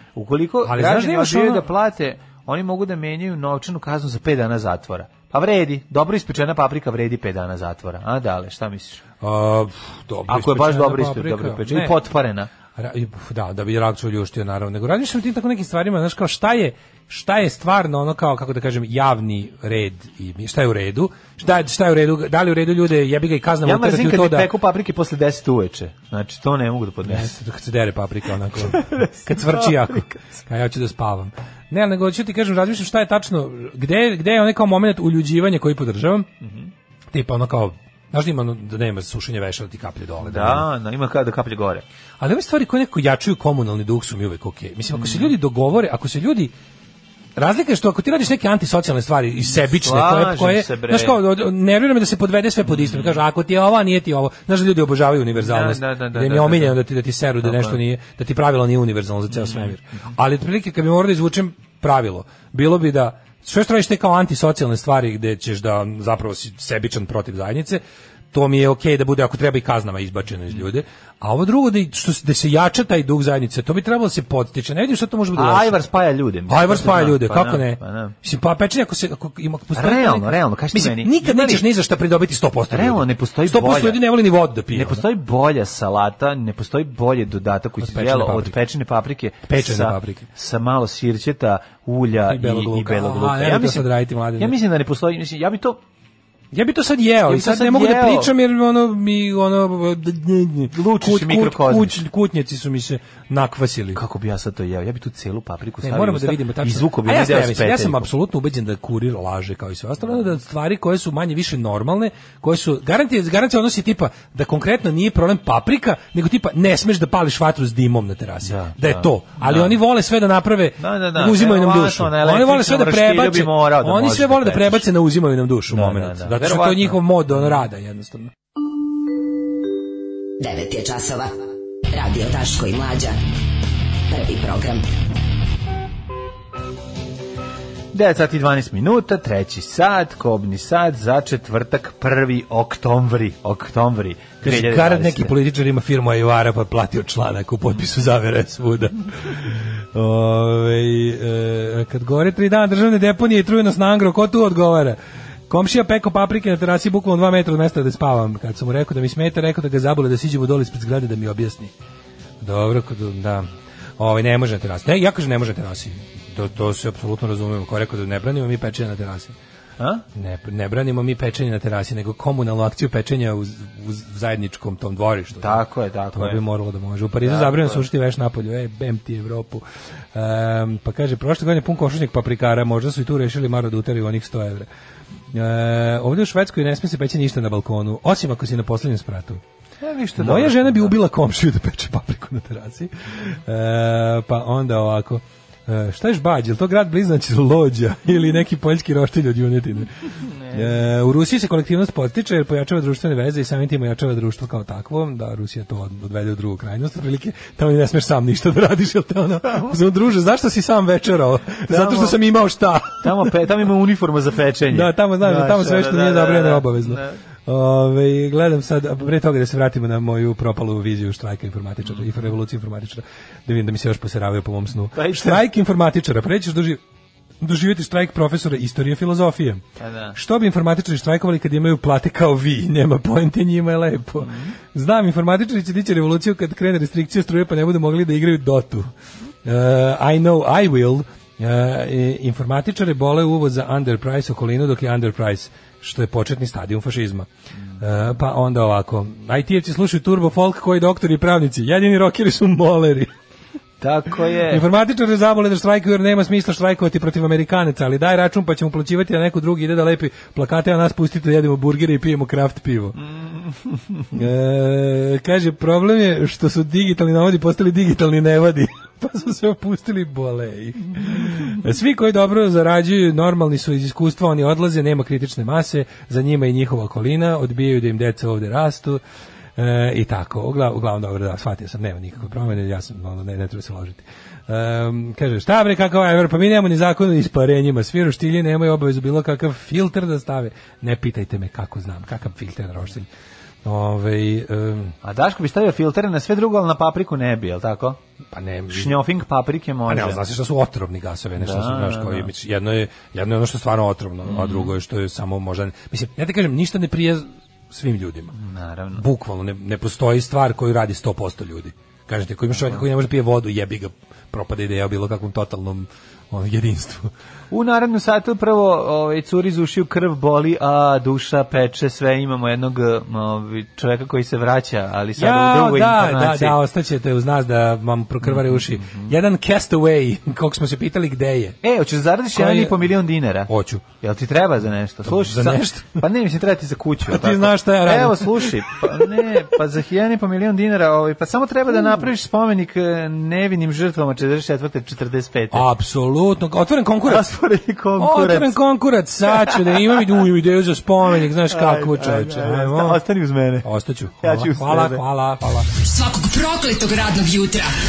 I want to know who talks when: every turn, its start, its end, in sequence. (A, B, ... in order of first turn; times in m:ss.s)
0:00.2-0:09.0 A
0:00.6-0:01.6 B
0:09.2-0:12.0 B
0:10.3-0:12.5 A
0:12.8-0:24.5 B
0:23.6-0:27.3 A
0:27.0-0:36.3 B
0:28.6-0:30.2 A
0:36.4-0:36.7 A
0:37.1-0:40.7 B
0:40.2-0:41.8 A
0:42.2-0:46.5 B
0:44.9-0:45.3 A
0:47.4-1:15.8 B
0:49.5-0:51.2 A
0:52.7-0:53.2 A
0:55.4-0:56.8 A
0:57.4-0:57.8 A
0:59.3-0:59.8 A
1:15.4-1:18.2 A
1:16.5-1:25.0 B
1:19.7-1:21.6 A
1:22.7-1:24.0 A
1:24.7-1:35.8 A
1:27.8-1:28.6 B
1:29.5-1:30.3 B
1:32.3-1:34.6 B
1:36.5-1:44.0 B
1:37.3-1:38.3 A
1:40.7-1:42.0 A
1:43.9-1:48.1 A
1:45.8-2:08.3 B
1:58.4-1:59.7 A
2:00.8-2:04.9 A
2:05.7-2:07.5 A
2:10.4-2:11.3 C
2:11.9-2:13.2 C
2:14.1-2:14.8 C
2:17.9-2:25.3 A
2:24.4-2:35.0 B
2:35.5-2:41.7 B
2:42.4-2:43.5 B
2:44.0-2:49.3 B
2:49.8-2:50.0 A
2:50.2-2:55.6 B
2:55.4-2:56.4 A
2:56.1-3:04.7 B
2:57.2-2:57.8 A
3:05.3-3:09.4 B
3:09.8-3:10.9 A
3:10.2-3:19.9 B
3:20.5-3:33.3 B
3:31.7-3:32.2 A
3:33.0-3:37.2 A
3:34.7-3:46.8 B
3:44.9-3:45.4 A
3:47.4-3:49.6 B
3:49.8-3:50.2 A
3:50.1-3:58.9 B
3:54.2-3:54.6 A
3:59.4-4:07.3 B
4:07.8-4:13.1 B
4:13.8-4:14.6 A
4:14.5-4:23.0 B
4:23.0-4:24.0 A
4:24.1-4:39.0 B
4:39.6-4:53.1 B
4:53.6-4:54.9 B
4:55.0-4:58.0 A
4:58.3-4:59.0 B
4:58.7-5:00.2 A
4:59.9-5:08.3 B
5:01.4-5:02.3 A
5:04.3-5:04.7 A
5:08.3-5:09.0 A
5:09.0-5:17.1 B
5:17.5-5:26.6 A
5:25.2-5:31.6 B
5:28.2-5:29.1 A
5:31.6-5:45.6 A
5:32.3-5:32.9 B
5:33.5-5:33.8 B
5:35.0-5:36.0 B
5:37.1-5:38.9 B
5:45.5-5:47.3 B
5:47.0-5:48.6 A
5:48.0-5:53.0 B
5:49.3-5:50.2 A
5:51.5-5:53.7 A
5:53.6-5:55.7 B
5:54.2-5:55.0 A
5:55.8-5:57.7 C